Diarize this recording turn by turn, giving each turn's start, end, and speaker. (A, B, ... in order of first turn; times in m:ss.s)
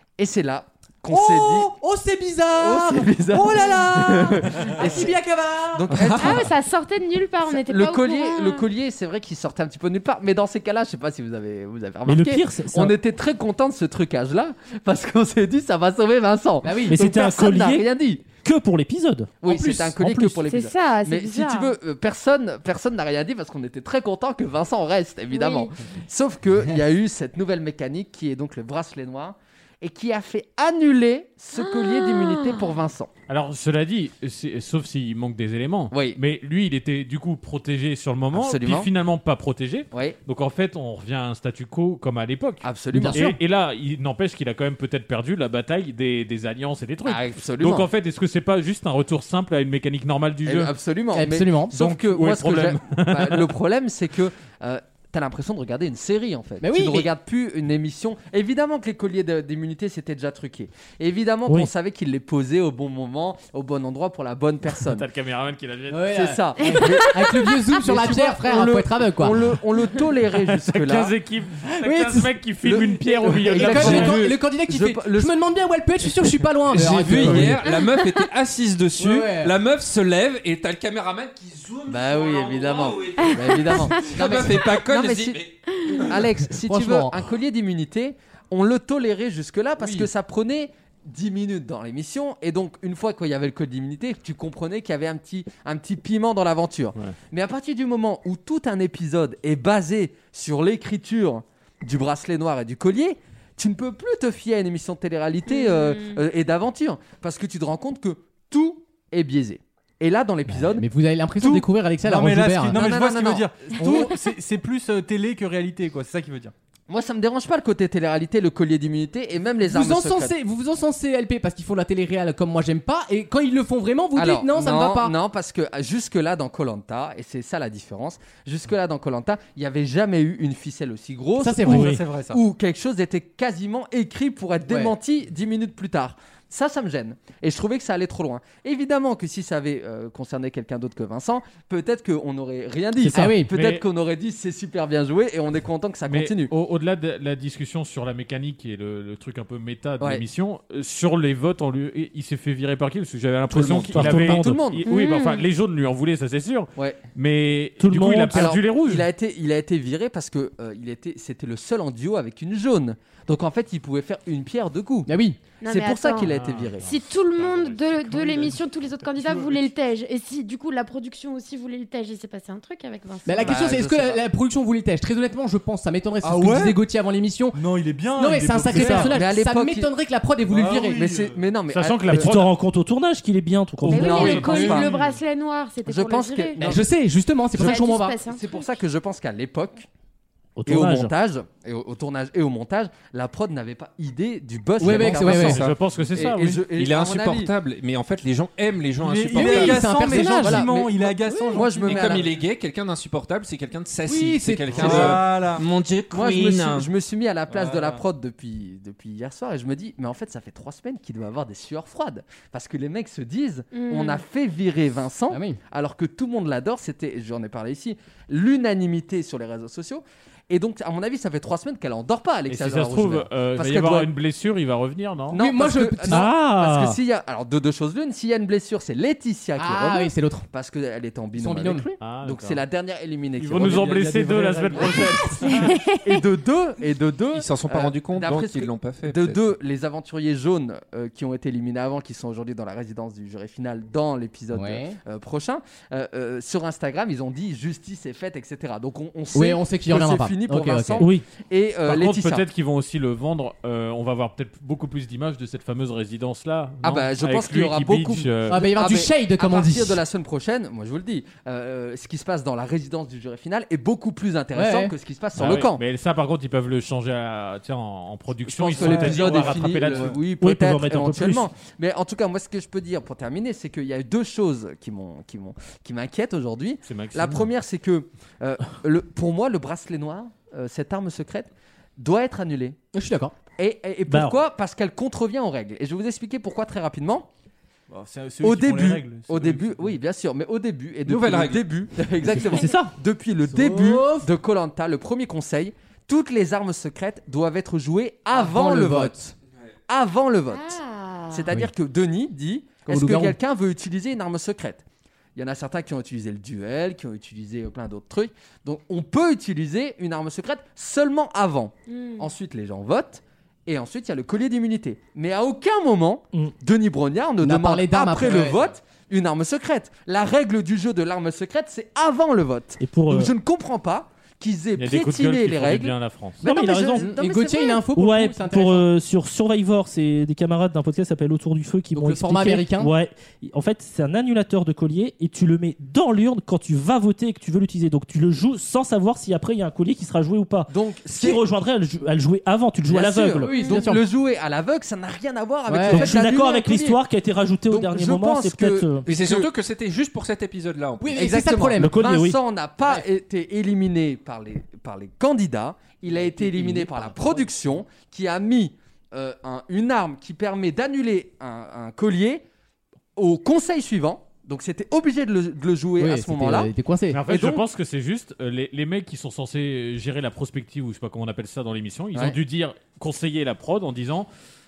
0:00.2-0:01.7 A
0:01.1-0:05.9 B
0:02.6-0:05.2 A
0:05.7-0:06.5 A
0:05.9-0:06.4 C
0:06.2-0:08.6 D
0:07.5-0:18.3 A
0:12.1-0:13.0 E
0:16.6-0:17.0 B
0:16.9-0:20.4 E
0:19.4-0:33.1 A
0:19.5-0:19.9 B
0:20.5-0:21.7 D
0:25.3-0:25.7 D
0:31.5-0:32.8 D
0:33.3-0:50.7 F
0:35.9-0:36.2 A
0:38.3-0:38.9 A
0:39.9-0:40.2 A
0:42.6-0:43.3 A
0:42.9-0:43.4 B
0:47.0-0:47.9 A
0:50.4-1:05.1 A
0:51.1-0:51.8 B
0:51.7-0:53.5 F
0:56.6-0:57.1 B
1:01.5-1:01.7 E
1:04.7-1:06.2 F
1:05.9-1:09.5 B
1:06.1-1:11.2 A
1:06.6-1:07.7 D
1:10.5-1:14.3 F
1:11.7-1:12.3 B
1:12.6-1:15.4 A
1:13.2-1:17.7 B
1:16.7-1:25.5 C
1:16.9-1:17.4 A
1:17.7-1:18.1 D
1:19.0-1:19.5 B
1:21.9-1:50.9 A
1:23.2-1:24.1 D
1:24.2-1:24.7 B
1:25.7-1:26.0 D
1:26.2-1:27.2 B
1:29.8-1:30.1 B
1:45.5-1:46.2 D
1:50.5-1:52.8 B
1:51.4-1:56.5 G
1:52.7-1:54.1 A
1:56.9-2:00.3 A
1:59.7-2:05.1 B
2:04.2-2:26.5 A
2:11.4-2:12.0 B
2:11.6-2:12.4 G
2:14.7-2:14.9 B
2:23.0-2:23.4 E
2:23.2-2:23.5 B
2:23.5-2:23.8 F
2:26.1-2:39.1 F
2:33.5-2:34.9 A
2:33.6-2:34.7 E
2:34.8-2:35.4 D
2:37.8-2:38.6 E
2:38.3-2:45.1 A
2:45.1-2:45.4 B
2:45.6-2:46.3 D
2:45.6-2:46.9 A
2:46.2-2:46.9 F
2:46.8-2:53.7 D
2:47.4-2:49.7 G
2:53.2-3:01.0 B
2:53.4-2:54.2 A
2:56.2-2:56.8 G
2:57.5-2:59.1 G
2:58.7-2:59.0 F
2:59.0-2:59.9 A
3:00.5-3:01.5 G
3:00.9-3:02.3 A
3:01.7-3:02.5 F
3:02.1-3:04.5 E
3:03.8-3:04.9 A
3:03.9-3:06.7 D
3:03.9-3:05.0 F
3:04.4-3:05.0 G
3:05.9-3:06.9 A
3:06.6-3:08.2 B
3:07.5-3:08.7 D
3:07.6-3:09.9 A
3:10.6-3:11.1 E
3:10.7-3:17.5 A
3:14.8-3:15.6 B
3:15.0-3:16.6 F
3:15.5-3:15.8 C
3:16.7-3:20.1 C
3:19.0-3:22.3 G
3:19.4-3:20.7 B
3:20.2-3:22.3 A
3:21.3-3:21.6 B
3:21.8-3:26.9 C
3:24.1-3:25.2 B
3:24.7-3:25.6 G
3:26.1-3:44.1 A
3:27.5-3:28.0 G
3:33.7-3:34.2 D
3:35.3-3:35.6 B
3:42.5-3:45.4 F
3:45.3-3:54.0 A
3:45.4-3:46.3 B
3:46.1-3:47.0 E
3:49.6-3:50.5 B
3:51.4-3:51.9 B
3:52.0-3:52.6 F
3:53.4-3:55.6 F
3:53.5-3:55.7 G
3:55.5-3:56.0 D
3:55.9-4:12.4 A
3:57.3-3:59.4 C
4:04.5-4:05.0 B
4:09.3-4:11.1 B
4:11.0-4:11.3 E
4:11.8-4:18.7 F
4:16.8-4:25.8 A
4:18.5-4:20.0 B
4:24.5-4:24.9 B
4:25.4-4:30.2 F
4:28.5-4:42.8 A
4:28.7-4:30.2 G
4:30.3-4:31.5 E
4:36.9-4:37.5 F
4:42.9-4:43.4 B
4:43.6-4:47.3 A
4:44.1-4:44.4 E
4:47.9-4:50.0 G
4:48.4-4:59.2 A
4:51.1-4:51.6 C
4:52.3-4:52.9 E
4:53.5-4:54.3 B
4:58.3-4:59.3 B
4:59.9-5:00.8 A
5:00.5-5:01.5 D
5:01.3-5:04.8 A
5:02.9-5:03.4 B
5:05.4-5:27.8 A
5:11.9-5:12.3 D
5:17.4-5:18.6 B
5:22.8-5:23.3 E
5:24.8-5:26.4 F
5:26.4-5:27.1 E
5:27.0-5:28.9 B
5:27.9-5:43.5 E
5:31.9-5:32.9 B
5:40.7-5:41.4 A
5:42.9-5:47.0 A
5:43.4-5:44.0 B
5:43.5-5:43.8 D
5:45.7-5:46.2 B
5:45.9-5:49.0 E
5:47.7-5:49.5 A
5:49.1-5:51.3 C
5:51.0-5:52.1 B
5:51.1-6:02.4 A
5:51.8-5:52.4 E
5:56.1-5:57.5 B
6:03.2-6:06.7 A
6:06.0-6:07.2 B
6:07.1-6:14.3 F
6:07.3-6:07.6 A